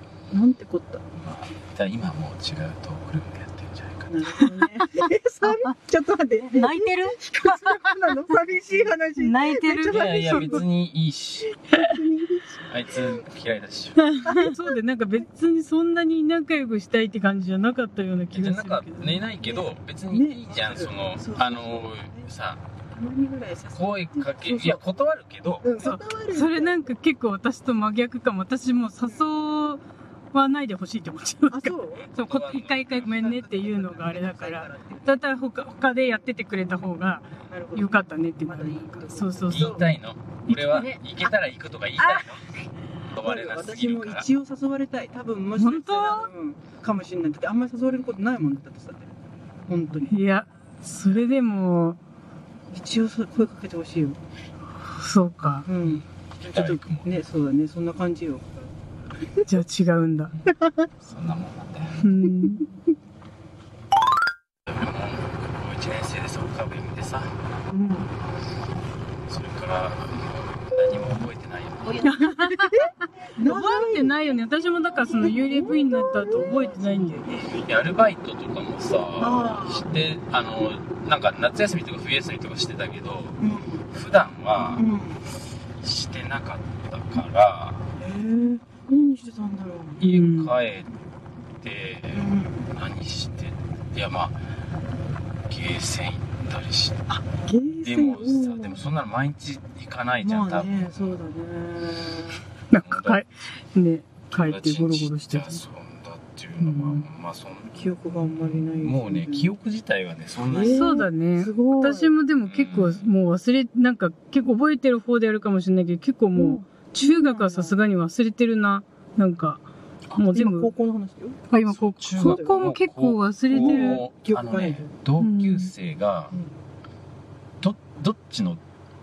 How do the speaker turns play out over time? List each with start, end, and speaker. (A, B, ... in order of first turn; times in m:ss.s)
0:00.3-0:01.0 A
0:01.2-0:04.2 B
0:04.1-0:10.6 A
0:04.4-0:05.7 C
0:06.5-0:07.8 C
0:09.2-0:10.6 C
0:09.9-0:11.6 B
0:11.7-0:13.2 A
0:12.7-0:14.1 B
0:14.0-0:19.2 C
0:14.2-0:14.8 A
0:18.3-0:22.6 B
0:19.4-0:22.3 A
0:22.9-0:24.8 A
0:23.7-0:25.8 B
0:25.6-0:27.0 A
0:25.8-0:39.8 C
0:31.5-0:32.1 A
0:32.2-0:33.2 B
0:33.0-0:35.3 A
0:37.5-0:39.9 A
0:39.5-0:42.5 B
0:40.5-0:41.0 C
0:43.1-0:44.3 B
0:43.2-0:49.1 A
0:45.6-0:46.3 C
0:49.7-0:50.2 A
0:50.1-0:52.0 C
0:52.7-0:54.2 A
0:54.9-0:55.7 C
0:55.7-0:58.6 A
0:55.8-0:57.1 B
0:59.4-1:00.3 C
1:00.5-1:00.9 A
1:01.0-1:02.1 B
1:02.0-1:02.7 C
1:04.7-1:07.3 B
1:07.7-1:08.1 A
1:09.3-1:12.1 B
1:12.0-1:17.5 C
1:12.0-1:14.2 A
1:15.2-1:17.1 A
1:17.5-1:23.4 B
1:19.2-1:19.9 A
1:23.4-1:23.9 A
1:23.9-1:24.8 B
1:24.8-1:25.2 A
1:25.8-1:27.9 B
1:28.0-1:30.0 A
1:30.0-1:30.9 B
1:30.0-1:30.5 C
1:31.6-1:34.5 B
1:32.1-1:32.7 A
1:35.5-1:37.1 B
1:37.1-1:38.8 A
1:37.8-1:41.2 B
1:40.2-1:42.4 A
1:42.7-1:45.6 C
1:42.8-1:43.2 B
1:44.3-1:47.7 B
1:46.6-1:47.1 A
1:47.7-1:49.5 A
1:48.8-1:50.9 B
1:50.5-1:52.2 A
1:50.6-1:59.6 C
1:52.5-1:53.1 B
1:56.4-1:57.8 A
2:00.2-2:00.7 C
2:00.3-2:01.4 A
2:01.5-2:04.0 C
2:01.7-2:06.3 B
2:02.2-2:02.7 A
2:03.5-2:04.9 A
2:05.2-2:05.7 C
2:07.6-2:08.6 B